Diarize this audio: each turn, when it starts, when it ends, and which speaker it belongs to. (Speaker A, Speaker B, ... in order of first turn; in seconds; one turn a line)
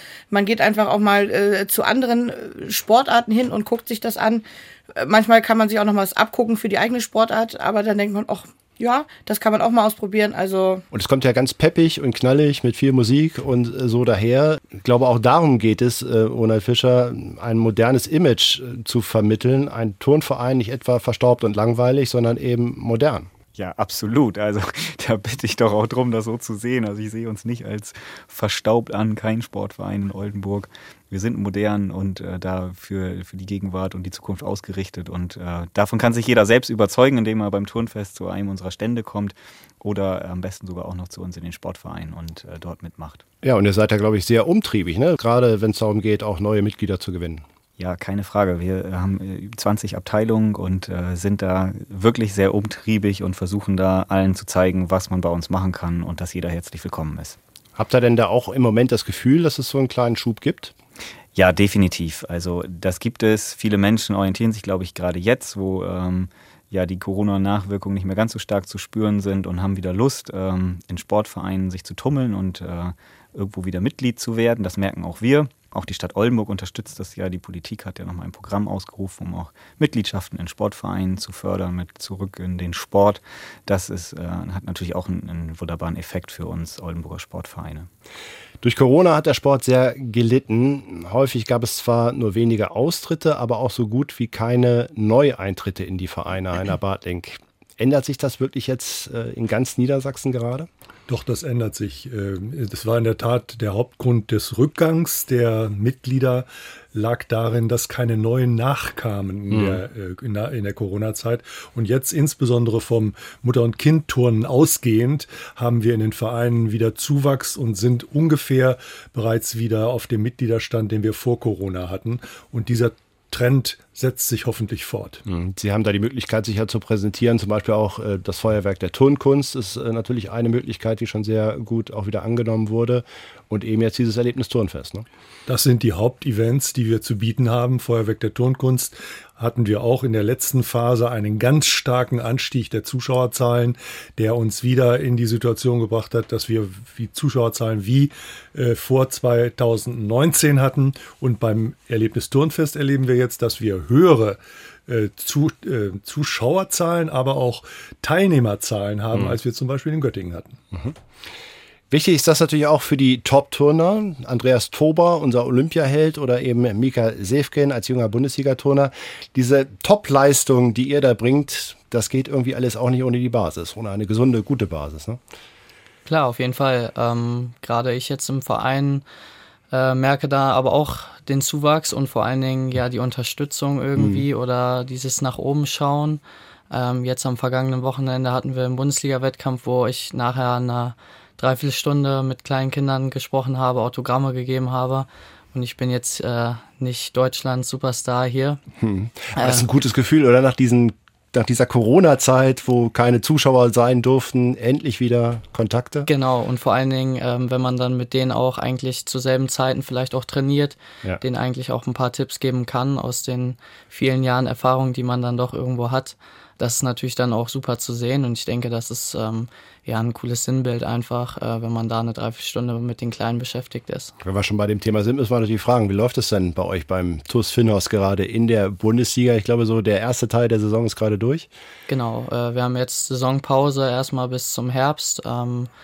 Speaker A: 0.3-10.8
Speaker B: 10.9-23.3
Speaker C: 23.5-43.2
Speaker B: 43.4-47.4
Speaker C: 47.8-57.4
Speaker B: 57.8-60.7
Speaker C: 61.4-87.9
Speaker B: 88.6-100.7
Speaker D: 101.1-125.2
Speaker B: 109.5-109.8
Speaker B: 125.3-135.1
Speaker D: 135.5-160.6
Speaker B: 161.9-175.2
Speaker E: 176.1-179.0
Speaker E: 179.7-198.6
Speaker B: 184.0-184.3
Speaker B: 198.8-206.1
Speaker E: 199.4-199.7
Speaker E: 206.1-224.1
Speaker B: 224.2-231.5
Speaker E: 231.9-235.7